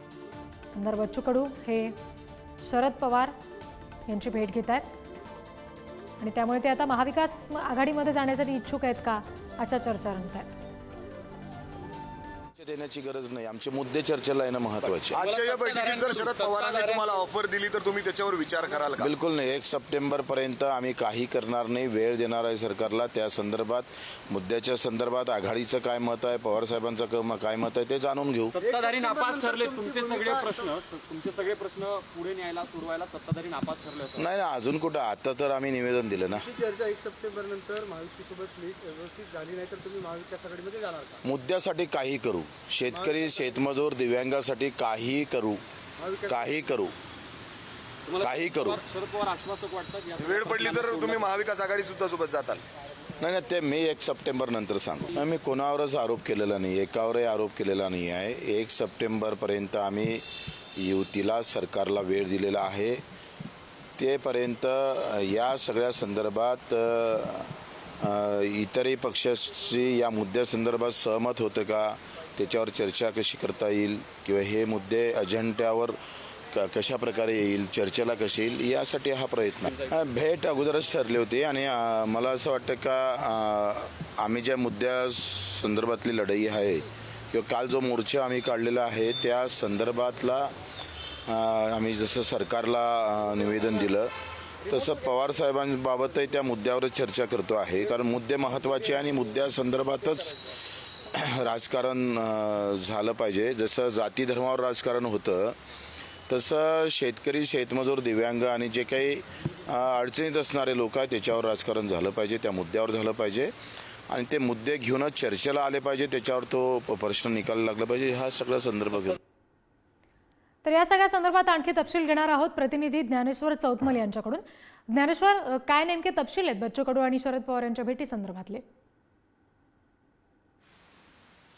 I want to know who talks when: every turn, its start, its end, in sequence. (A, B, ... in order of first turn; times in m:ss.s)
0:00.7-0:01.9 A
0:02.6-0:03.3 A
0:04.1-0:04.8 A
0:06.2-0:10.5 A
0:12.6-0:15.2 B
0:15.1-0:19.1 C
0:15.2-0:17.1 D
0:19.0-0:28.6 B
0:28.5-0:34.3 D
0:28.6-0:30.7 E
0:34.2-0:36.5 B
0:36.3-0:41.2 E
0:41.2-0:45.6 B
0:42.9-0:43.4 E
0:46.0-0:46.7 E
0:46.3-0:46.9 B
0:48.1-0:51.4 D
0:48.2-0:48.8 B
0:50.2-0:52.6 C
0:53.2-1:03.0 B
1:04.0-1:16.0 B
1:16.5-1:30.5 B
1:31.3-1:34.1 B
1:34.7-1:40.4 B
1:34.7-1:34.9 E
1:38.7-1:39.2 E
1:40.1-1:40.4 E
1:41.1-1:45.6 B
1:46.3-1:53.5 B
1:54.1-1:59.2 B
2:00.6-2:08.6 A